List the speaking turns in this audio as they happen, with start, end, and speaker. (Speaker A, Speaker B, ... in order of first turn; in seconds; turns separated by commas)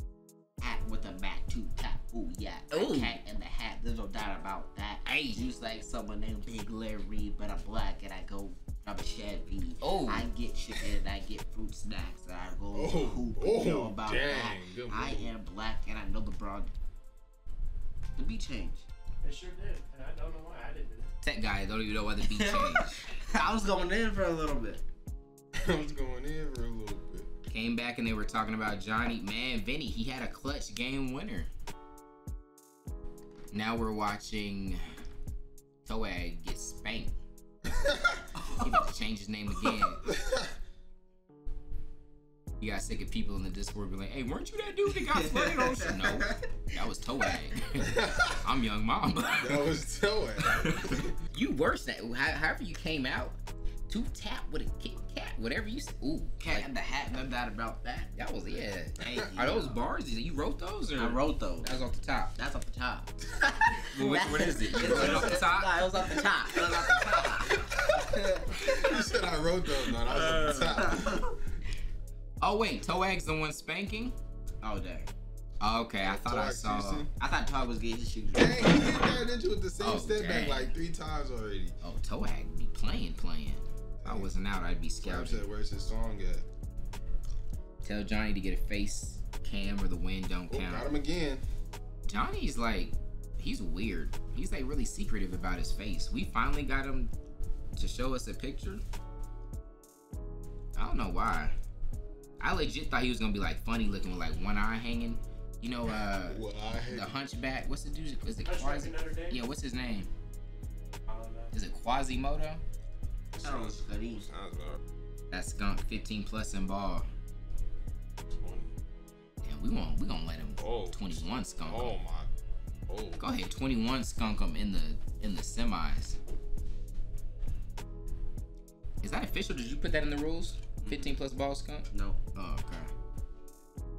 Speaker A: 0.6-16.7, Speaker B: 2.7-3.2, Speaker B: 5.0-5.5, Speaker B: 9.8-10.3, Speaker C: 12.7-15.3, Speaker A: 18.2-18.9, Speaker D: 19.2-21.1, Speaker B: 21.2-23.0, Speaker A: 22.2-24.8, Speaker C: 25.5-27.3, Speaker B: 27.5-31.5, Speaker B: 33.5-34.8, Speaker B: 35.9-37.2, Speaker C: 37.7-38.2, Speaker A: 38.4-38.9, Speaker B: 38.6-40.1, Speaker C: 40.0-40.5, Speaker B: 42.6-49.8, Speaker A: 45.0-46.5, Speaker C: 47.8-48.5, Speaker C: 49.4-51.2, Speaker B: 50.5-53.4, Speaker B: 53.9-56.7, Speaker A: 56.4-58.1, Speaker B: 58.1-62.3, Speaker A: 59.0-59.7, Speaker A: 61.0-61.7, Speaker A: 62.4-63.1, Speaker A: 63.7-68.5, Speaker B: 63.9-65.8, Speaker C: 64.6-71.4, Speaker B: 70.0-70.9, Speaker B: 72.4-74.2, Speaker A: 74.6-75.1, Speaker B: 75.6-77.1, Speaker C: 76.0-77.1, Speaker A: 77.2-78.9, Speaker C: 78.3-81.8, Speaker B: 79.8-80.7, Speaker B: 81.8-85.5, Speaker C: 84.0-84.3, Speaker C: 85.0-86.5, Speaker B: 87.8-90.9, Speaker C: 90.5-91.5, Speaker B: 92.1-97.1, Speaker B: 97.8-98.8, Speaker B: 100.8-101.6, Speaker B: 102.4-110.1, Speaker C: 105.9-107.2, Speaker D: 108.5-109.4, Speaker D: 111.1-111.5, Speaker B: 111.5-112.6, Speaker C: 113.3-114.8, Speaker A: 113.4-114.2, Speaker B: 115.3-117.1, Speaker C: 118.3-118.7, Speaker B: 119.4-122.0, Speaker C: 120.6-122.3, Speaker C: 122.9-123.2, Speaker B: 123.2-126.2, Speaker B: 129.0-131.9, Speaker A: 130.8-131.2, Speaker A: 131.9-132.9